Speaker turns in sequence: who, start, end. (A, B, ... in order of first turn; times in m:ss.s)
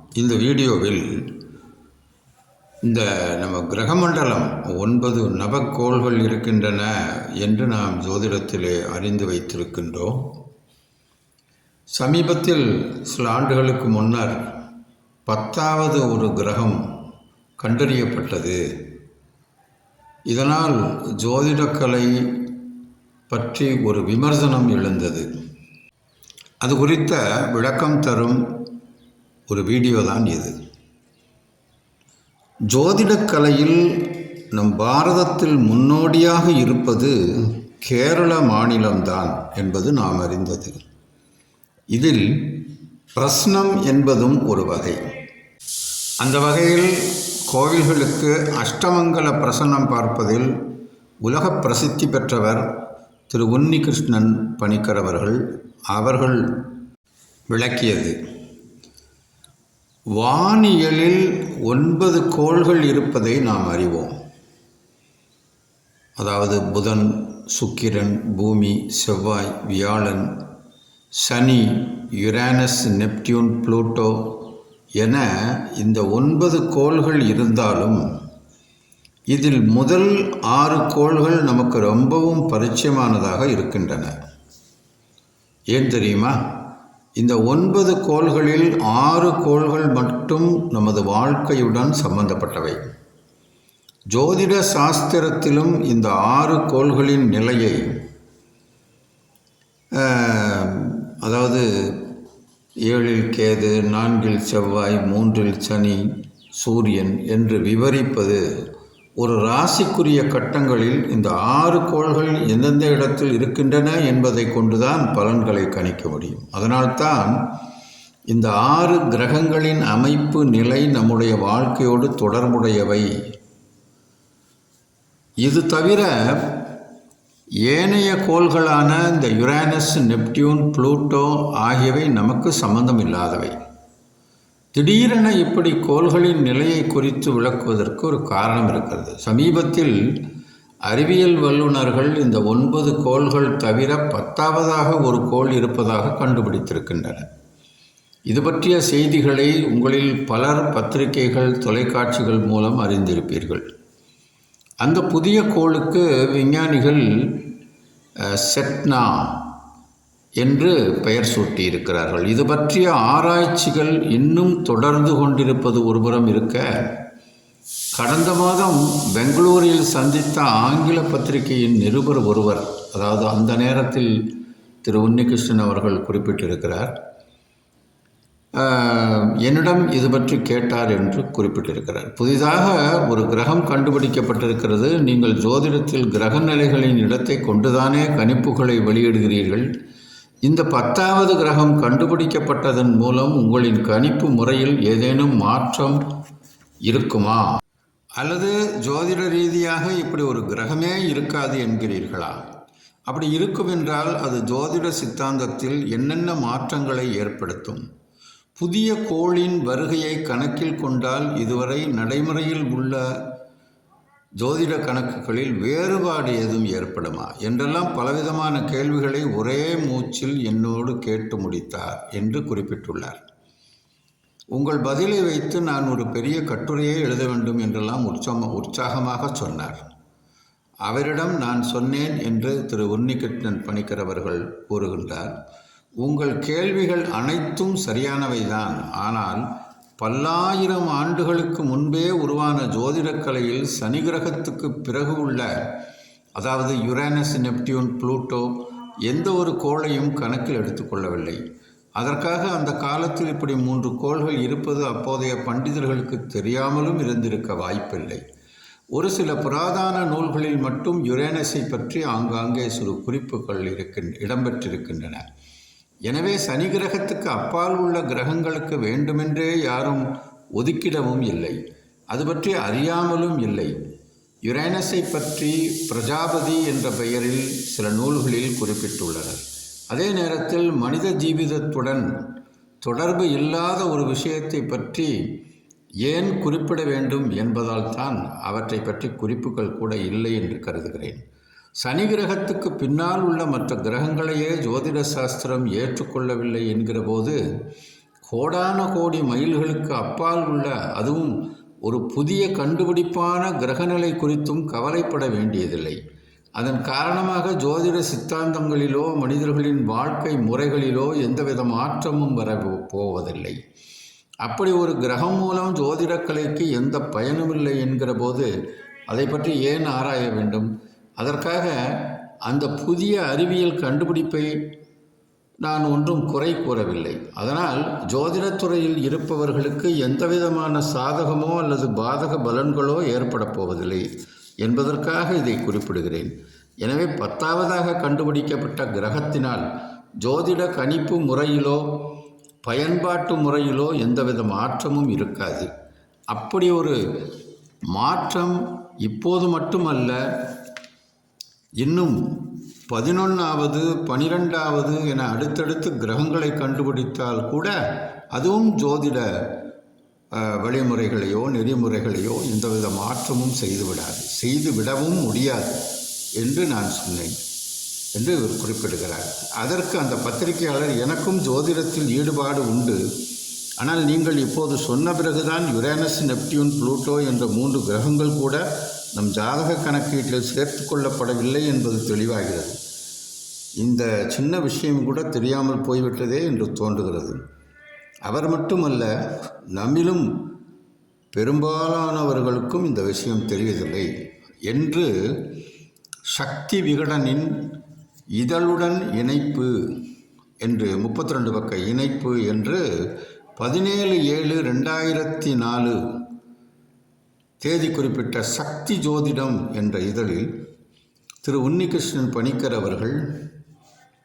0:00.2-0:01.3 A
0:02.8-0:10.3 A
0:11.9-0:14.4 A
0:15.3-0:16.8 A
0:17.6-0:18.6 A
0:20.3-0:22.6 A
0:23.3-0:25.3 A
0:26.6-0:28.6 A
0:29.5-0:30.6 A
0:32.7-0:40.8 A
0:41.9-0:45.1 A
0:46.2-0:50.6 A
0:51.2-0:52.7 A
0:53.3-0:56.7 A
0:57.5-0:58.2 A
1:00.2-1:04.2 A
1:06.2-1:10.3 A
1:11.2-1:14.5 A
1:15.0-1:18.0 A
1:19.3-1:24.1 A
1:25.7-1:26.4 A
1:27.2-1:32.8 A
1:34.1-1:37.9 A
1:40.0-1:42.1 A
1:42.9-1:46.0 A
1:46.6-1:48.4 A
1:49.2-1:57.3 A
1:58.3-2:03.1 A
2:05.4-2:06.6 A
2:07.7-2:13.6 A
2:14.8-2:20.0 A
2:20.9-2:27.2 A
2:28.3-2:33.6 A
2:34.8-2:37.5 A
2:38.3-2:39.5 A
2:40.4-2:46.7 A
2:48.0-2:54.2 A
2:54.8-2:56.9 A
2:58.6-3:09.7 A
3:10.4-3:16.0 A
3:16.9-3:17.5 A
3:18.2-3:22.4 A
3:23.1-3:27.8 A
3:28.6-3:33.0 A
3:34.4-3:43.2 A
3:44.5-3:49.8 A
3:50.9-3:55.4 A
3:56.0-3:59.4 A
4:00.0-4:05.5 A
4:06.4-4:11.4 A
4:12.0-4:18.2 A
4:18.9-4:25.2 A
4:26.1-4:31.6 A
4:32.1-4:33.7 A
4:34.4-4:42.2 A
4:42.8-4:45.1 A
4:46.0-4:51.2 A
4:51.8-4:57.4 A
4:58.3-5:06.0 A
5:06.6-5:13.6 A
5:14.4-5:18.5 A
5:19.1-5:24.5 A
5:25.6-5:34.1 A
5:34.6-5:36.3 A
5:36.8-5:39.6 A
5:40.2-5:42.1 A
5:42.6-5:45.7 A
5:46.3-5:47.3 A
5:47.9-5:50.2 A
5:51.8-5:57.8 A
5:58.3-5:59.3 A
6:00.3-6:05.8 A
6:06.4-6:07.4 A
6:08.2-6:13.0 A
6:13.8-6:22.8 A
6:23.8-6:27.4 A
6:28.2-6:29.1 A
6:29.7-6:30.4 A
6:31.3-6:34.1 A
6:34.7-6:35.5 A
6:36.3-6:37.7 A
6:38.4-6:39.8 A
6:40.6-6:42.8 A
6:43.6-6:46.0 A
6:47.6-6:50.5 A
6:51.4-6:53.2 A